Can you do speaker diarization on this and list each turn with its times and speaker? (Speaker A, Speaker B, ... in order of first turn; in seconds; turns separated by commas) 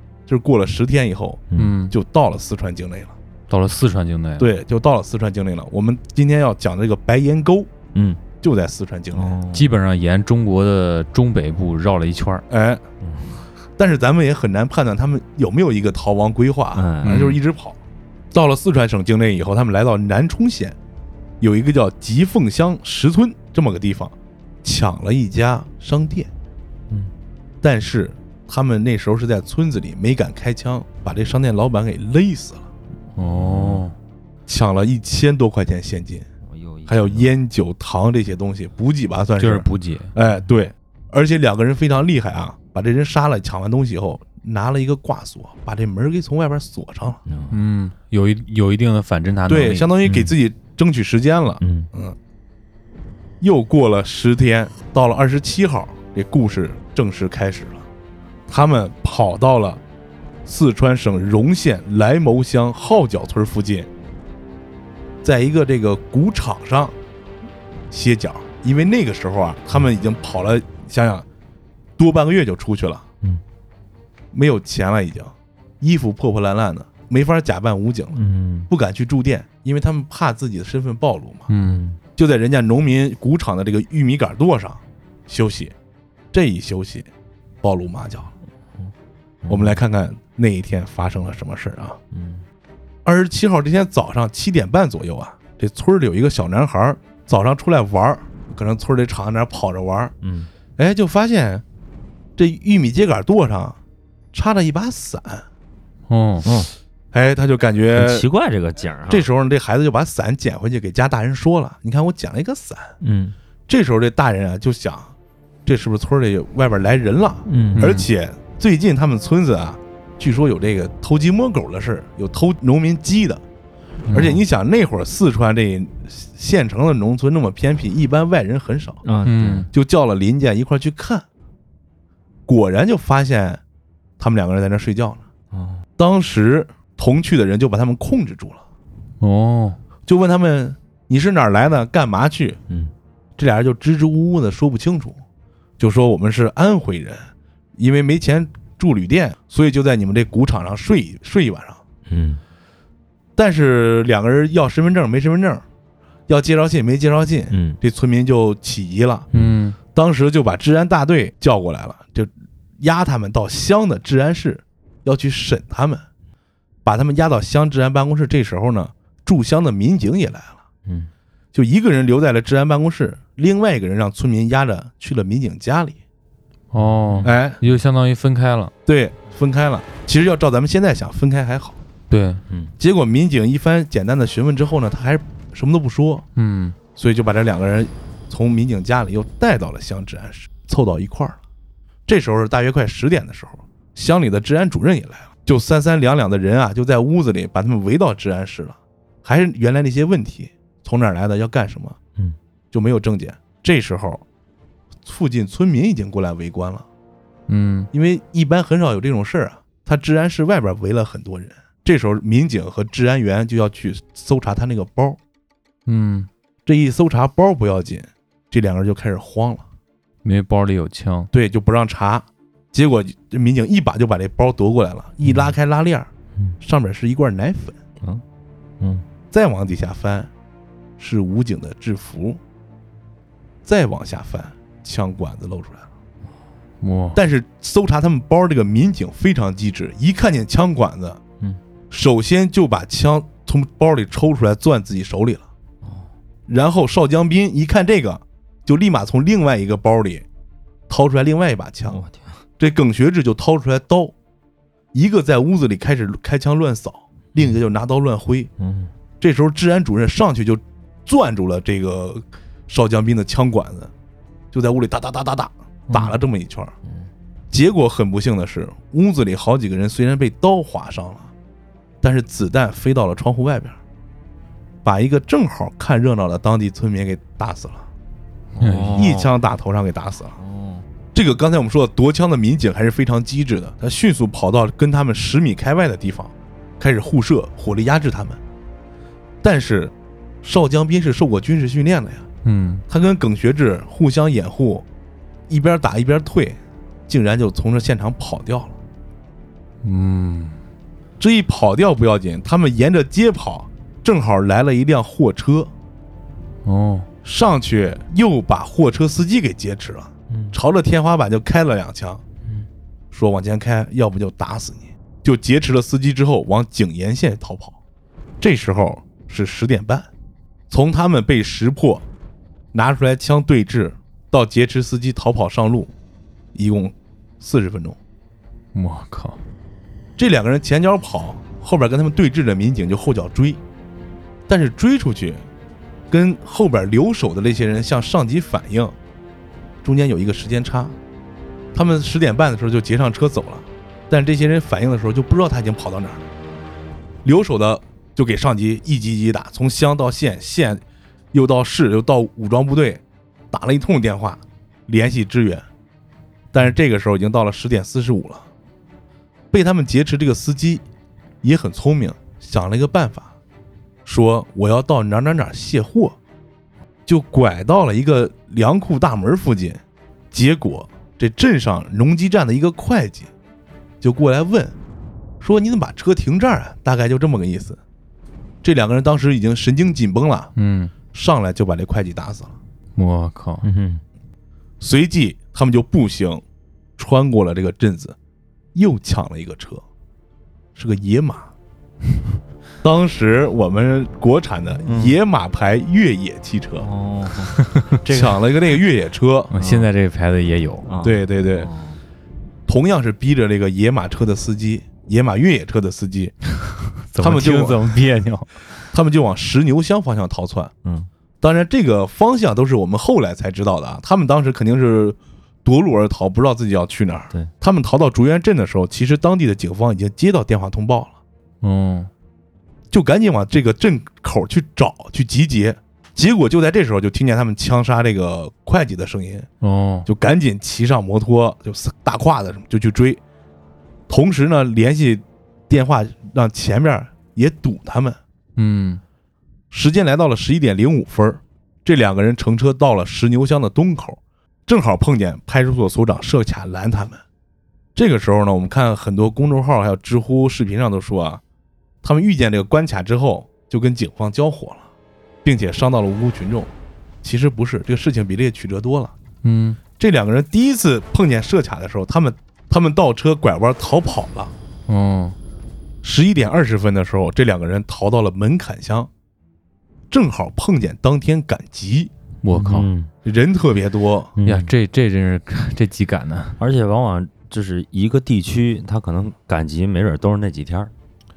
Speaker A: 0.3-3.1, Speaker B: 1.5-1.8, Speaker C: 1.6-1.9, Speaker C: 3.5-4.5, Speaker A: 4.4-7.7, Speaker B: 7.9-8.2, Speaker A: 8.4-9.4, Speaker B: 9.1-9.7, Speaker C: 9.5-12.4, Speaker A: 12.5-12.8, Speaker B: 13.0-13.3, Speaker A: 13.8-17.8, Speaker B: 16.7-17.4, Speaker C: 17.0-17.4, Speaker A: 18.3-20.8, Speaker A: 21.4-26.3, Speaker A: 27.6-32.6, Speaker C: 33.1-34.0, Speaker B: 33.2-33.9, Speaker A: 34.5-36.2, Speaker B: 36.5-37.3, Speaker A: 36.9-47.2, Speaker C: 39.4-40.1, Speaker B: 47.2-47.6, Speaker C: 47.5-49.9, Speaker A: 49.5-52.1, Speaker B: 50.0-50.3, Speaker B: 51.6-51.9, Speaker A: 53.4-57.8, Speaker A: 58.5-59.8, Speaker A: 60.5-63.9, Speaker A: 65.2-66.9, Speaker A: 67.9-71.2, Speaker A: 72.0-73.0, Speaker A: 74.3-78.2, Speaker B: 78.1-78.7, Speaker A: 78.7-81.5, Speaker C: 81.5-81.8, Speaker B: 81.6-82.0, Speaker A: 82.2-85.7, Speaker A: 86.3-87.1, Speaker A: 87.6-88.3, Speaker B: 89.4-89.8, Speaker A: 89.5-92.0, Speaker B: 92.1-92.4, Speaker A: 93.0-100.1, Speaker B: 100.2-100.5, Speaker A: 100.8-101.6, Speaker A: 102.4-103.8, Speaker A: 104.3-105.4, Speaker C: 106.1-106.5, Speaker B: 106.4-106.7, Speaker A: 107.1-108.2, Speaker B: 107.9-109.3, Speaker A: 109.1-112.9, Speaker B: 113.0-113.3, Speaker A: 113.7-115.1, Speaker A: 115.7-123.4, Speaker B: 117.5-117.9, Speaker C: 117.8-118.0, Speaker C: 124.1-124.4, Speaker A: 124.1-129.0, Speaker B: 129.0-129.7, Speaker C: 129.2-129.7, Speaker A: 129.7-131.2, Speaker A: 132.5-133.6, Speaker A: 134.2-135.2, Speaker B: 135.5-135.8, Speaker A: 136.0-138.6, Speaker C: 139.2-139.8, Speaker A: 140.1-142.6, Speaker A: 143.4-145.2, Speaker A: 145.8-151.8, Speaker B: 152.1-152.4, Speaker A: 153.3-155.6, Speaker A: 156.3-159.3, Speaker B: 157.5-157.8, Speaker C: 159.3-159.8, Speaker A: 159.9-166.0, Speaker A: 166.8-170.6, Speaker A: 171.5-176.0, Speaker C: 176.7-178.7, Speaker B: 177.0-177.3, Speaker A: 177.2-177.6, Speaker A: 178.8-181.8, Speaker C: 182.1-182.4, Speaker A: 182.8-186.2, Speaker C: 186.3-186.8, Speaker A: 186.9-191.4, Speaker A: 192.1-202.0, Speaker A: 202.7-204.2, Speaker A: 205.0-206.8, Speaker C: 207.5-207.9, Speaker A: 207.9-215.2, Speaker C: 215.8-216.3, Speaker A: 216.7-219.6, Speaker C: 220.2-221.3, Speaker A: 221.3-226.1, Speaker B: 225.2-225.5, Speaker A: 226.6-227.8, Speaker A: 229.3-230.3, Speaker A: 231.0-232.4, Speaker A: 233.6-235.8, Speaker C: 236.8-237.2, Speaker A: 237.1-241.2, Speaker A: 241.9-245.4, Speaker B: 245.8-246.1, Speaker A: 246.5-250.2, Speaker A: 250.9-252.0, Speaker B: 251.9-252.4, Speaker A: 252.6-254.1, Speaker A: 254.9-258.5, Speaker B: 258.6-258.9, Speaker A: 259.2-263.9, Speaker A: 264.5-266.7, Speaker B: 265.9-266.2, Speaker A: 267.5-271.3, Speaker A: 272.0-273.8, Speaker A: 274.8-277.9, Speaker B: 278.5-279.3, Speaker C: 278.6-279.1, Speaker A: 278.9-280.4, Speaker B: 280.4-280.9, Speaker A: 281.1-288.4, Speaker A: 289.4-292.2, Speaker C: 292.4-292.8, Speaker A: 292.9-294.9, Speaker A: 295.5-298.7, Speaker C: 299.8-300.6, Speaker A: 301.2-305.7, Speaker C: 306.6-307.1, Speaker A: 307.2-312.2, Speaker B: 310.3-310.6, Speaker A: 313.1-317.8, Speaker A: 318.4-320.1, Speaker A: 320.7-322.0, Speaker A: 322.7-325.9, Speaker A: 326.5-328.0, Speaker C: 328.7-329.4, Speaker A: 330.2-333.6, Speaker A: 334.5-335.4, Speaker A: 336.1-338.9, Speaker A: 339.8-340.9, Speaker A: 341.7-346.2, Speaker A: 347.2-350.8, Speaker A: 351.3-355.6, Speaker A: 356.5-358.4, Speaker A: 359.5-360.8, Speaker A: 361.4-363.3, Speaker A: 364.1-366.1, Speaker A: 367.1-369.8, Speaker A: 370.3-373.3, Speaker A: 374.0-374.7, Speaker A: 375.4-377.8, Speaker A: 378.6-380.5, Speaker C: 380.6-380.9, Speaker A: 381.1-382.5, Speaker C: 382.9-383.6, Speaker B: 383.6-384.0, Speaker A: 384.8-386.4, Speaker A: 387.0-388.1, Speaker A: 388.7-389.8, Speaker A: 390.7-391.5, Speaker A: 392.8-396.9, Speaker B: 394.9-395.2, Speaker B: 396.8-398.4, Speaker A: 398.1-399.5, Speaker C: 399.5-400.9, Speaker B: 399.6-399.9, Speaker B: 400.9-402.0, Speaker A: 401.0-401.7, Speaker A: 402.7-406.3, Speaker C: 407.0-408.6, Speaker A: 407.2-407.8, Speaker A: 408.9-410.7, Speaker A: 411.4-421.1, Speaker C: 421.6-422.1, Speaker A: 422.9-429.5, Speaker C: 429.6-430.1, Speaker A: 430.1-433.2, Speaker A: 434.1-438.2, Speaker C: 438.6-439.0, Speaker A: 439.7-447.2, Speaker A: 447.9-451.4, Speaker A: 452.0-454.9, Speaker A: 455.4-456.7, Speaker A: 457.2-459.1, Speaker C: 459.4-459.8, Speaker A: 460.0-464.5, Speaker C: 464.9-465.4, Speaker A: 466.0-469.1, Speaker A: 470.1-472.1, Speaker C: 472.4-472.9, Speaker B: 472.5-473.1, Speaker A: 473.2-474.3, Speaker B: 474.4-474.7, Speaker C: 474.4-476.6, Speaker B: 476.6-480.9